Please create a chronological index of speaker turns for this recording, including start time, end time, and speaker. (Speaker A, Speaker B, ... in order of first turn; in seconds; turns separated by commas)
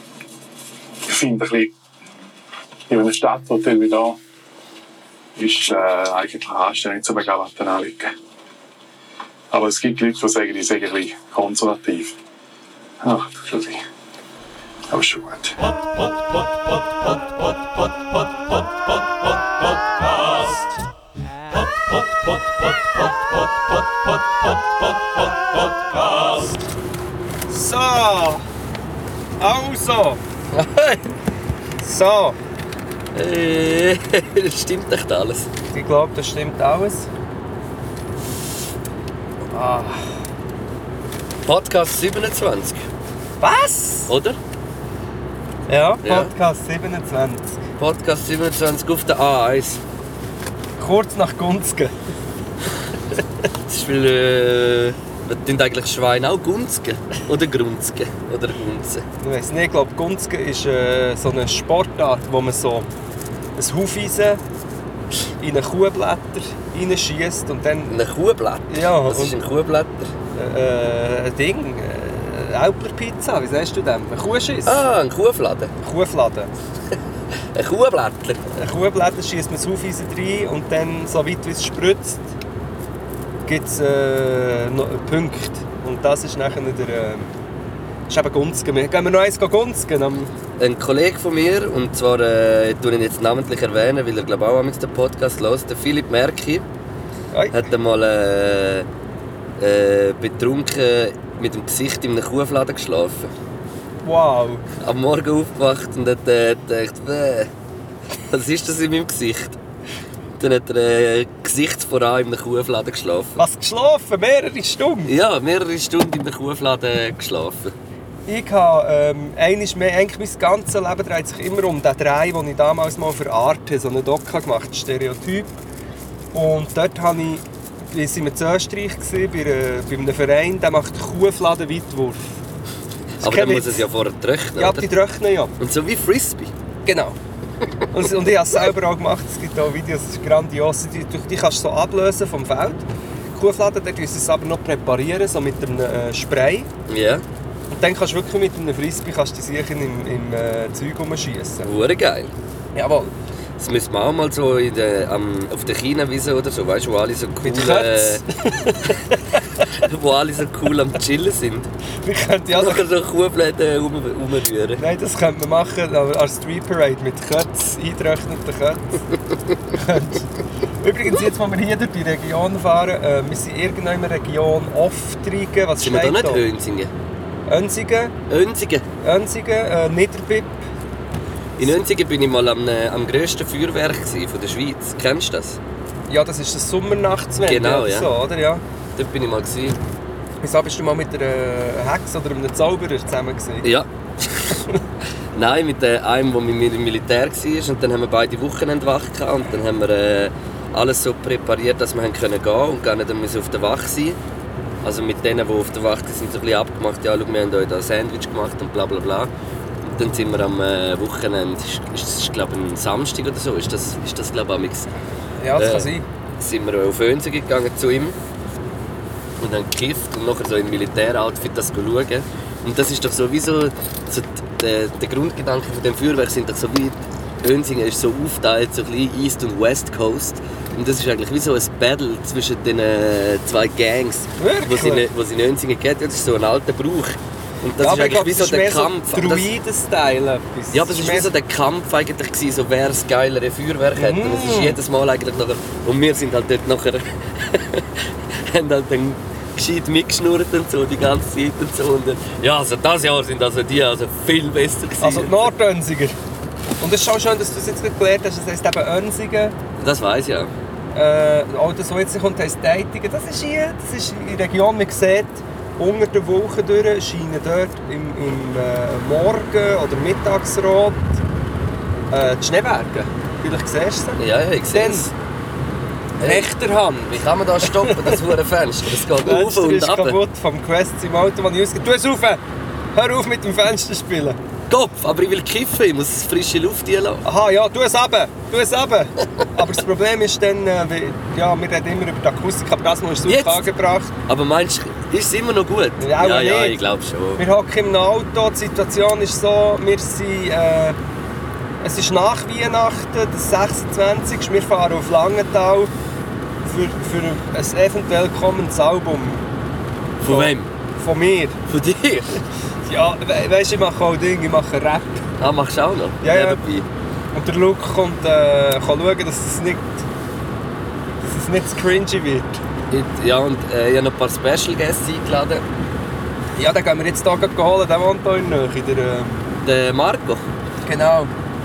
Speaker A: 1.1-1.7, Speaker A: 2.9-4.2, Speaker A: 5.4-8.1, Speaker A: 9.5-12.2, Speaker A: 13.0-13.8, Speaker A: 14.9-15.7, Speaker B: 27.5-28.4, Speaker B: 29.4-30.2, Speaker C: 30.5-31.0, Speaker B: 31.8-32.4, Speaker C: 33.1-35.5, Speaker B: 35.7-37.1, Speaker B: 39.5-40.1, Speaker C: 41.5-42.9, Speaker B: 43.4-44.1, Speaker C: 44.1-44.4, Speaker B: 45.7-47.6, Speaker C: 46.0-46.3, Speaker C: 47.8-49.8, Speaker B: 50.8-51.9, Speaker C: 53.7-59.1, Speaker B: 59.2-62.9, Speaker B: 63.6-64.4, Speaker B: 65.4-68.0, Speaker C: 67.9-70.1, Speaker B: 68.7-69.4, Speaker B: 70.3-74.8, Speaker C: 74.7-75.7, Speaker B: 75.8-76.5, Speaker C: 77.5-78.5, Speaker B: 78.6-82.3, Speaker B: 83.5-87.3, Speaker B: 88.1-90.3, Speaker C: 90.6-96.7, Speaker B: 97.3-97.6, Speaker C: 97.5-98.9, Speaker C: 99.6-103.3, Speaker B: 104.0-104.6, Speaker C: 104.8-107.5, Speaker C: 108.3-109.6, Speaker C: 110.4-113.4, Speaker B: 113.4-115.1, Speaker C: 115.1-117.7, Speaker B: 118.3-125.6, Speaker B: 126.3-132.3, Speaker B: 133.2-133.8, Speaker C: 133.2-134.9, Speaker B: 134.6-135.5, Speaker C: 135.6-136.5, Speaker B: 136.9-137.2, Speaker B: 137.9-146.7, Speaker C: 146.9-147.2, Speaker B: 147.7-151.7, Speaker C: 151.6-152.3, Speaker B: 152.8-153.1, Speaker C: 153.6-158.2, Speaker B: 157.4-159.5, Speaker C: 159.6-161.7, Speaker B: 162.0-162.8, Speaker C: 162.5-164.8, Speaker B: 164.8-169.0, Speaker B: 169.7-176.4, Speaker C: 175.8-176.9, Speaker B: 177.5-178.2, Speaker C: 178.3-178.9, Speaker B: 179.0-180.6, Speaker C: 181.6-185.6, Speaker B: 186.1-188.6, Speaker C: 187.5-188.1, Speaker C: 189.0-189.8, Speaker B: 190.4-193.7, Speaker C: 193.6-194.6, Speaker C: 195.3-204.2, Speaker C: 204.8-209.3, Speaker C: 209.8-214.9, Speaker B: 215.4-216.1, Speaker C: 215.6-218.2, Speaker C: 219.4-239.5, Speaker B: 234.4-235.1, Speaker B: 237.8-241.3, Speaker C: 240.7-255.5, Speaker B: 243.9-244.8, Speaker B: 255.0-256.2, Speaker B: 256.8-259.6, Speaker C: 259.8-260.5, Speaker B: 260.9-271.2, Speaker B: 272.1-274.2, Speaker C: 274.2-275.1, Speaker B: 274.7-275.1, Speaker B: 276.2-278.2, Speaker C: 276.2-276.5, Speaker C: 277.1-280.2, Speaker B: 279.1-282.4, Speaker B: 282.9-284.4, Speaker C: 284.7-287.2, Speaker B: 287.2-294.1, Speaker C: 293.3-293.7, Speaker C: 294.3-297.4, Speaker B: 296.0-296.8, Speaker B: 297.4-301.0, Speaker B: 301.8-305.9, Speaker B: 306.6-309.5, Speaker C: 310.2-310.7, Speaker B: 310.3-311.6, Speaker C: 311.7-312.4, Speaker B: 312.9-315.3, Speaker C: 315.4-316.9, Speaker B: 316.2-316.6, Speaker B: 317.3-320.1, Speaker B: 321.2-322.6, Speaker C: 322.9-325.6, Speaker B: 326.6-329.5, Speaker C: 329.6-330.5, Speaker B: 330.8-331.3